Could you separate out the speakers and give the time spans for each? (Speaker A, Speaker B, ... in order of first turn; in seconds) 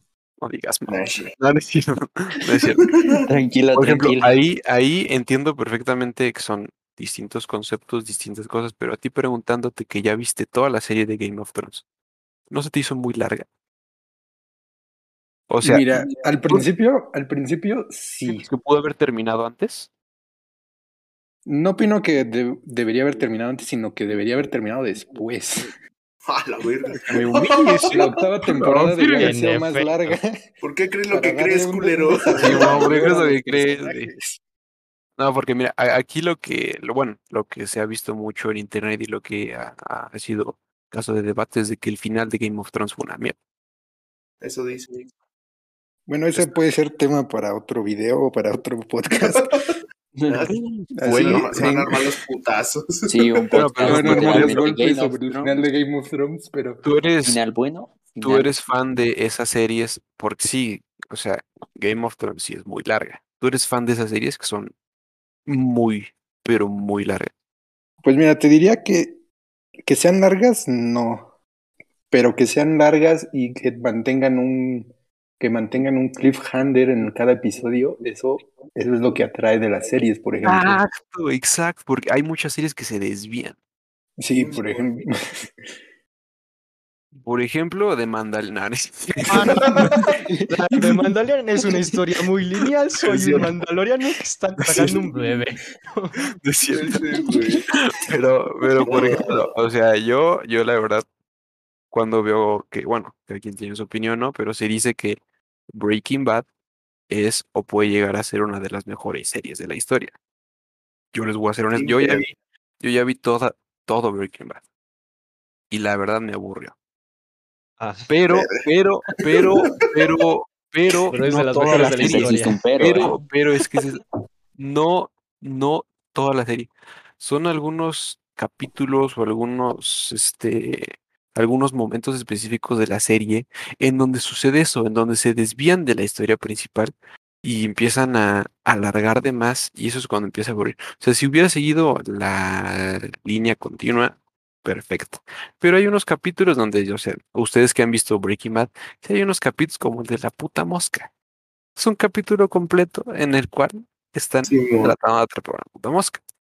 Speaker A: 0.4-2.9, 3.7-11.8, 12.5-13.4, 15.5-16.6, 18.3-19.9, 26.9-29.4, 32.4-34.1, 35.2-43.4, 50.5-51.6, 53.5-54.6, 56.8-57.4, 58.2-64.7, 65.5-67.3, 80.4-83.5, 87.1-89.9, 94.7-95.0, 96.4-97.0, 97.7-101.0, 101.9-106.5, 107.1-110.1, 111.1-114.6, 115.7-116.7, 118.1-124.0, 124.6-151.1, 151.8-156.2
Speaker B: 0.9-1.3, 2.8-3.2, 26.2-27.7, 30.6-33.0, 44.4-45.1, 50.3-53.9, 84.3-85.0, 89.3-90.2, 93.0-93.5, 96.7-97.6, 98.8-99.4, 111.7-112.2, 118.3-118.6, 154.4-154.9
Speaker C: 3.2-4.4, 50.1-50.5, 53.1-55.6, 57.2-58.5, 121.7-123.2
Speaker D: 15.6-18.5, 21.4-25.7, 27.1-30.4, 31.1-34.4, 46.1-49.6, 50.9-52.0, 53.8-56.8, 68.0-69.2, 69.8-71.3, 72.1-74.9, 75.4-80.8, 84.2-85.5
Speaker E: 29.1-30.1, 90.5-96.2, 117.8-118.1, 121.1-123.2